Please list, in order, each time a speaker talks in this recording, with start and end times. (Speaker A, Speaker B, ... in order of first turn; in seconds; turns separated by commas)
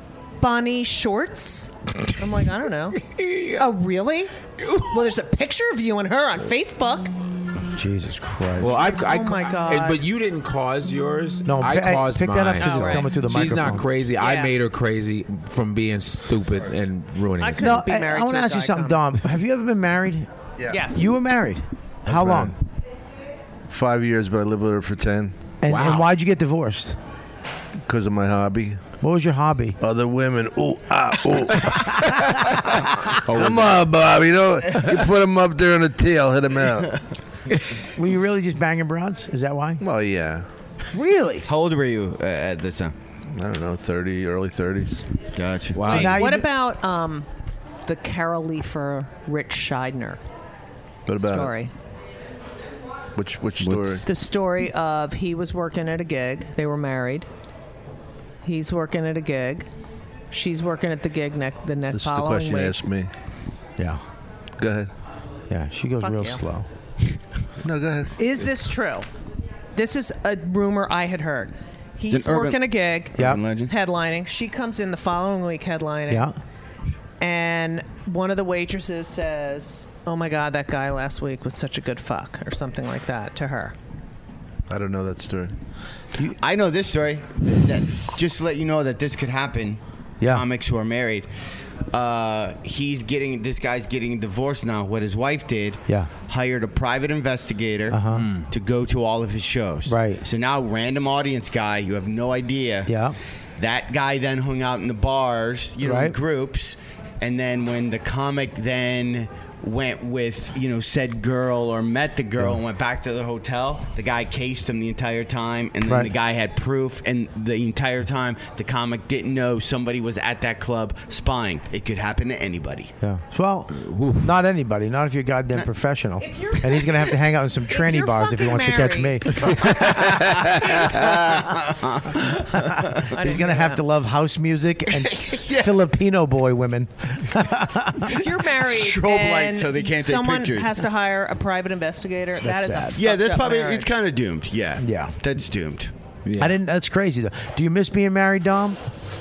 Speaker A: 0.4-3.0, Speaker B: 3.0-3.6, Speaker A: 3.5-7.1, Speaker B: 4.6-5.0, Speaker C: 7.7-8.8, Speaker B: 8.6-17.8, Speaker A: 8.8-10.0, Speaker C: 11.4-13.9, Speaker A: 12.6-13.1, Speaker A: 14.2-14.5, Speaker A: 17.4-19.0, Speaker C: 17.6-20.3, Speaker A: 20.7-21.1, Speaker C: 20.9-22.6, Speaker D: 22.1-22.5, Speaker D: 23.7-25.3, Speaker C: 25.6-27.0, Speaker B: 25.7-26.1, Speaker D: 27.9-28.8, Speaker C: 29.0-29.8, Speaker D: 29.8-37.0, Speaker B: 33.2-33.8, Speaker C: 37.9-39.8, Speaker D: 39.8-40.5, Speaker C: 40.9-41.5, Speaker E: 41.5-42.9, Speaker D: 43.3-45.1, Speaker E: 45.3-46.1, Speaker B: 45.7-46.2, Speaker C: 45.8-46.5, Speaker A: 45.9-47.3, Speaker A: 47.9-50.2, Speaker D: 51.0-51.5, Speaker A: 51.2-51.7, Speaker D: 53.1-54.0, Speaker B: 53.6-53.9, Speaker A: 54.0-57.3, Speaker A: 58.4-59.7, Speaker A: 60.3-62.8, Speaker D: 61.9-63.1, Speaker D: 64.6-64.9, Speaker C: 65.5-66.7, Speaker A: 66.0-66.4, Speaker D: 67.6-68.2, Speaker A: 68.2-69.1, Speaker A: 69.7-76.2, Speaker E: 72.1-73.7, Speaker C: 73.2-73.4, Speaker C: 76.1-76.4, Speaker A: 77.2-83.7, Speaker D: 84.7-85.5, Speaker E: 86.4-91.3, Speaker C: 90.2-90.4, Speaker E: 91.9-102.9, Speaker C: 97.9-98.3, Speaker B: 98.1-98.5, Speaker C: 99.8-100.2, Speaker C: 102.9-103.2, Speaker E: 103.6-122.9, Speaker C: 105.8-106.2, Speaker C: 115.8-116.1, Speaker C: 123.0-130.4, Speaker B: 123.8-124.3, Speaker A: 126.2-127.2, Speaker A: 127.7-129.9, Speaker E: 130.1-133.1, Speaker C: 132.6-138.2, Speaker A: 133.1-133.8, Speaker E: 135.0-135.8, Speaker A: 138.0-143.9, Speaker E: 138.6-140.8, Speaker C: 142.4-143.0, Speaker E: 142.9-145.9, Speaker C: 144.8-145.2, Speaker B: 146.2-146.5, Speaker C: 146.4-148.8